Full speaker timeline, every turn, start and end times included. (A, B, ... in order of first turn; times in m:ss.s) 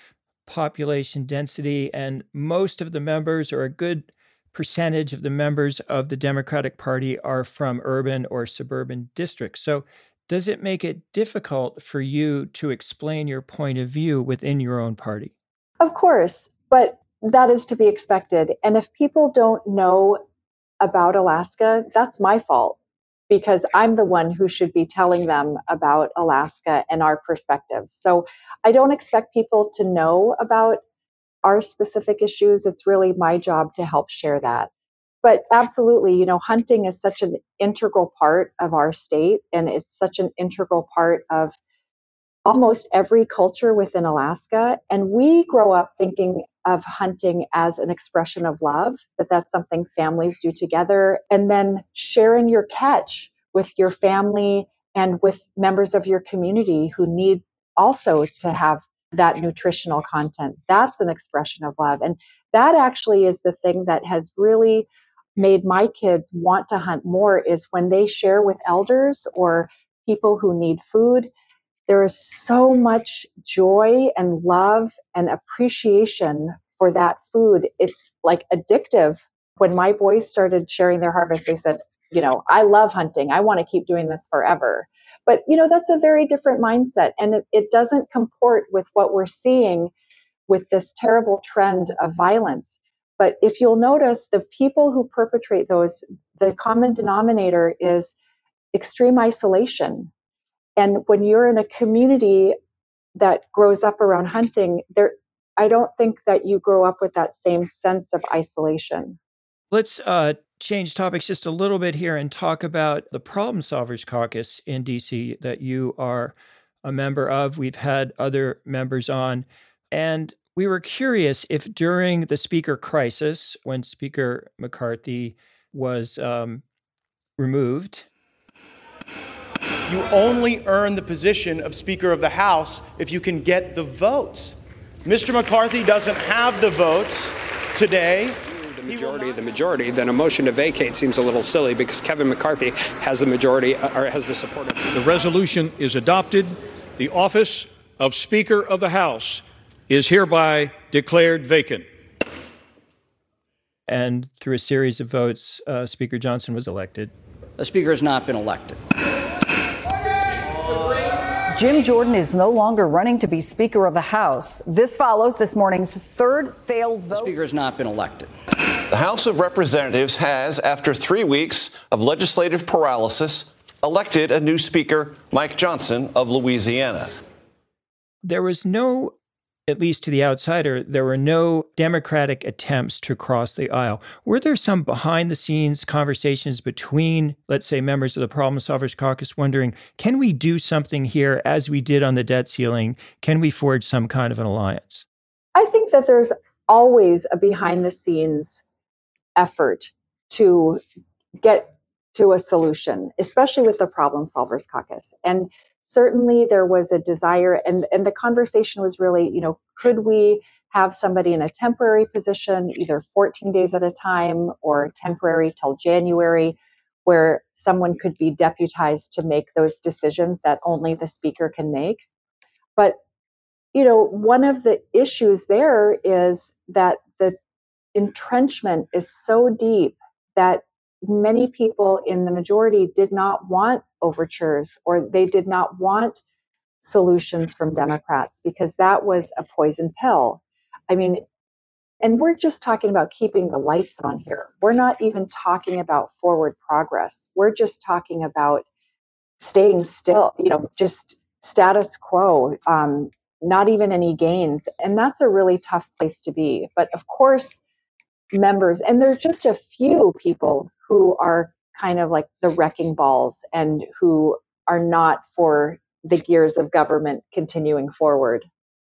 0:00.4-0:15.3 A
0:15.8-0:20.2 B
0:20.8-0:22.8 B
0:23.3-0:30.8 B
0:31.4-0:34.7 B
0:35.2-0:41.6 B
0:42.4-1:11.3 B
1:11.9-1:29.9 B
1:30.5-1:38.1 B
1:38.7-1:40.1 B
1:40.8-1:42.6 B
1:43.2-1:49.2 B
1:49.7-2:06.6 A
2:07.4-2:08.1 A
2:09.9-2:19.4 C
2:18.7-2:24.8 D
2:24.8-2:31.8 E
2:33.9-2:37.1 A
2:37.6-2:38.8 F
2:41.5-2:47.3 G
2:47.1-2:48.3 F
2:48.9-2:57.2 H
2:58.2-2:59.1 A
2:59.7-3:15.0 A
3:15.5-3:18.6 B
3:19.4-3:20.8 B
3:21.4-3:42.0 B
3:43.7-3:47.4 B
3:47.9-3:56.2 B
3:56.8-4:01.2 B
4:02.0-4:08.6 B
4:09.4-4:17.6 B
4:18.3-4:28.5 B